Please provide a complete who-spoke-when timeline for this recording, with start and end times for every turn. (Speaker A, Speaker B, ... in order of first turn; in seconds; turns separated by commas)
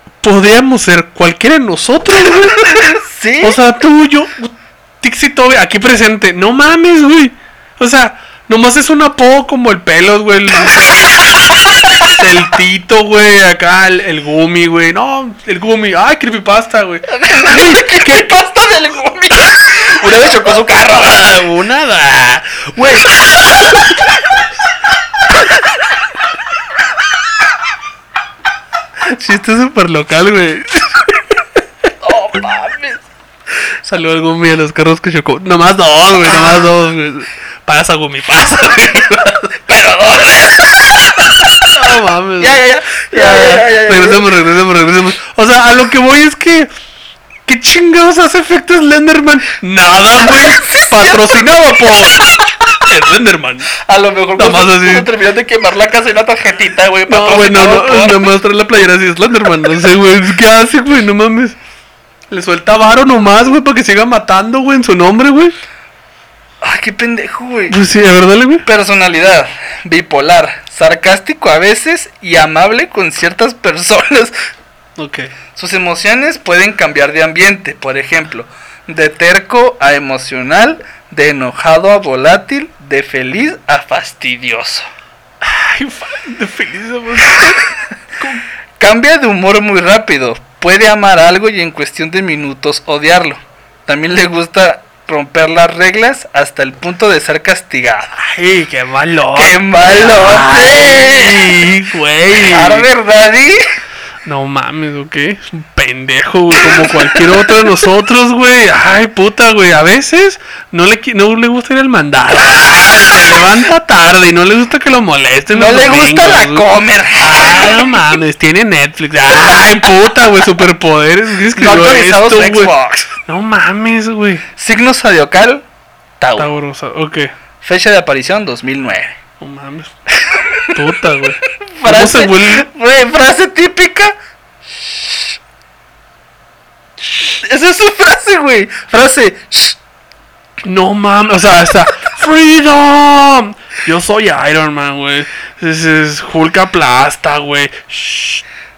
Speaker A: 0.2-2.8, Speaker B: 2.7-3.6, Speaker A: 3.4-11.5, Speaker A: 12.0-18.3, Speaker B: 17.1-21.3, Speaker A: 21.0-23.8, Speaker A: 29.0-31.2, Speaker B: 32.0-33.0, Speaker A: 33.7-39.5, Speaker B: 39.5-41.7, Speaker A: 41.7-46.7, Speaker B: 42.4-44.3, Speaker A: 47.5-53.8, Speaker B: 50.3-51.4, Speaker B: 53.9-58.3, Speaker A: 54.4-55.1, Speaker A: 57.1-61.6, Speaker A: 62.3-65.6, Speaker B: 66.6-67.8, Speaker A: 67.7-68.7, Speaker B: 68.7-74.3, Speaker A: 75.0-75.3, Speaker B: 75.6-84.9, Speaker A: 85.4-87.6, Speaker B: 88.8-98.2, Speaker A: 98.2-102.9, Speaker B: 99.3-101.6, Speaker B: 102.3-103.6, Speaker A: 104.2-116.7, Speaker B: 106.6-107.6, Speaker B: 115.5-118.0, Speaker A: 117.2-122.7, Speaker B: 121.5-123.2, Speaker A: 123.3-124.5, Speaker B: 124.6-125.6, Speaker B: 126.2-126.5, Speaker A: 126.4-127.3, Speaker B: 127.6-129.2, Speaker A: 129.4-129.9, Speaker B: 130.2-130.8, Speaker A: 130.7-132.7, Speaker B: 131.6-134.1, Speaker B: 134.8-135.3, Speaker B: 137.1-139.8, Speaker A: 140.6-148.4